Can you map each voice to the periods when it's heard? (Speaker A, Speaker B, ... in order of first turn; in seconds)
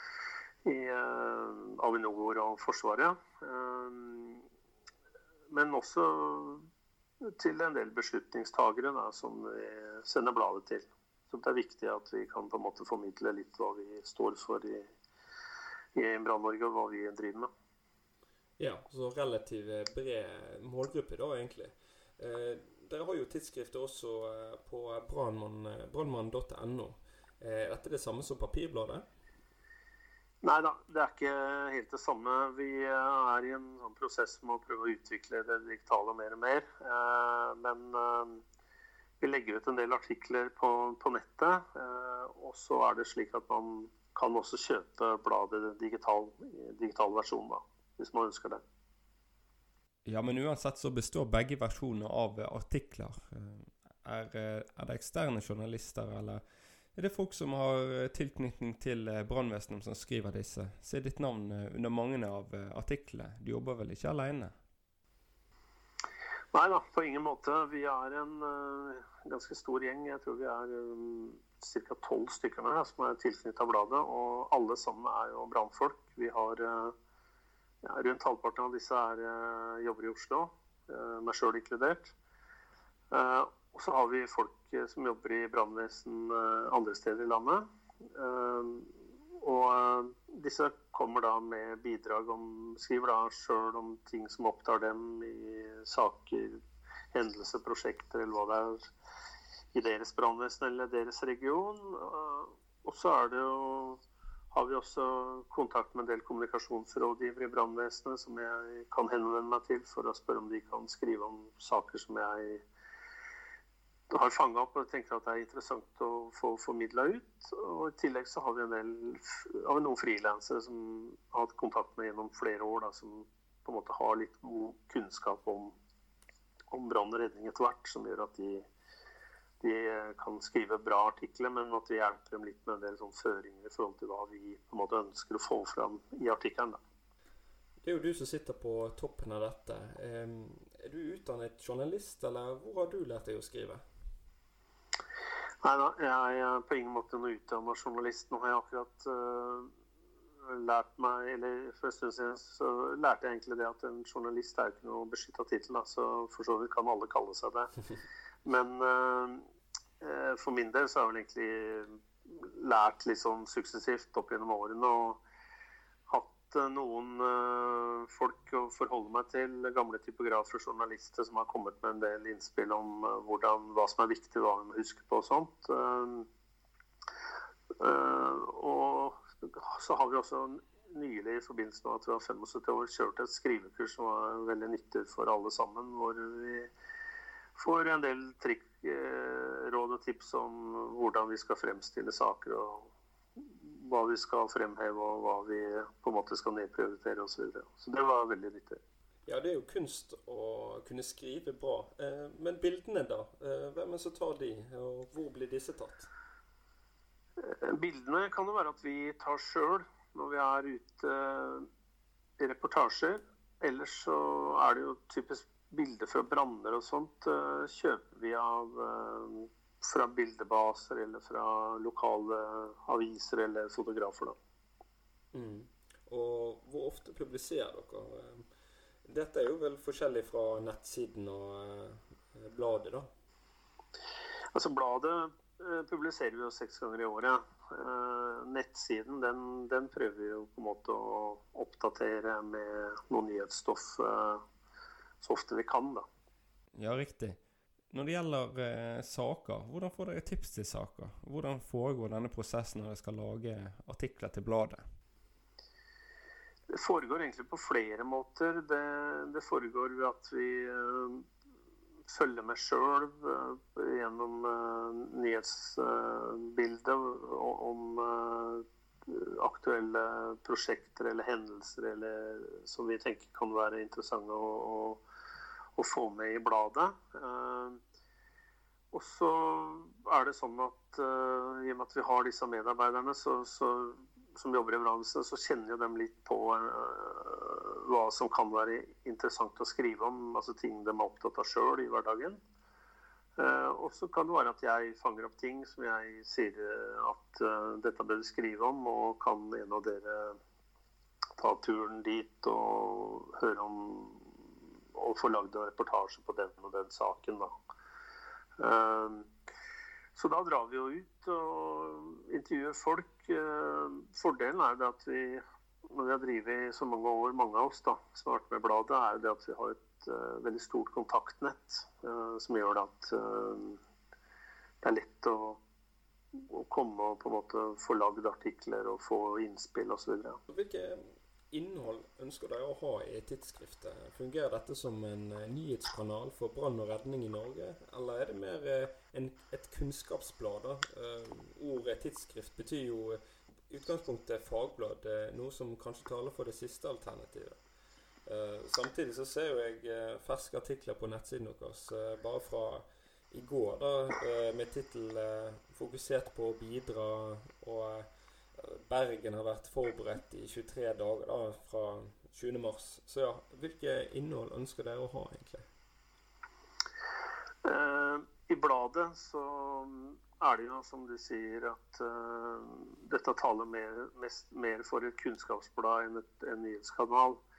Speaker A: 0.6-4.4, 5.5-6.7, 7.2-14.9, 15.9-17.5, 30.4-38.4, 39.2-48.6, 66.5-76.9, 77.8-82.1, 83.1-96.6, 97.1-98.9, 99.7-104.0, 104.5-112.6, 114.1-125.7, 126.7-128.7, 129.6-136.8, 145.6-149.7, 150.4-157.7, 158.4-159.4, 160.0-165.2, 166.1-176.3, 177.8-186.7, 187.6-198.8, 207.4-211.7, 212.4-224.4, 234.5-244.4, 245.2-246.0, 256.7-261.2, 262.1-275.0, 275.8-277.8, 278.9-292.4, 293.4-300.4, 301.4-304.3, 304.9-307.5, 308.6-309.3, 310.1-323.8, 324.8-325.6, 326.4-330.4, 367.6-377.4
Speaker B: 18.6-29.0, 50.0-56.4, 56.9-64.5, 137.8-143.8, 199.2-206.1, 225.3-228.5, 229.0-233.1, 246.7-247.4, 247.9-254.8, 330.5-347.6, 348.2-365.6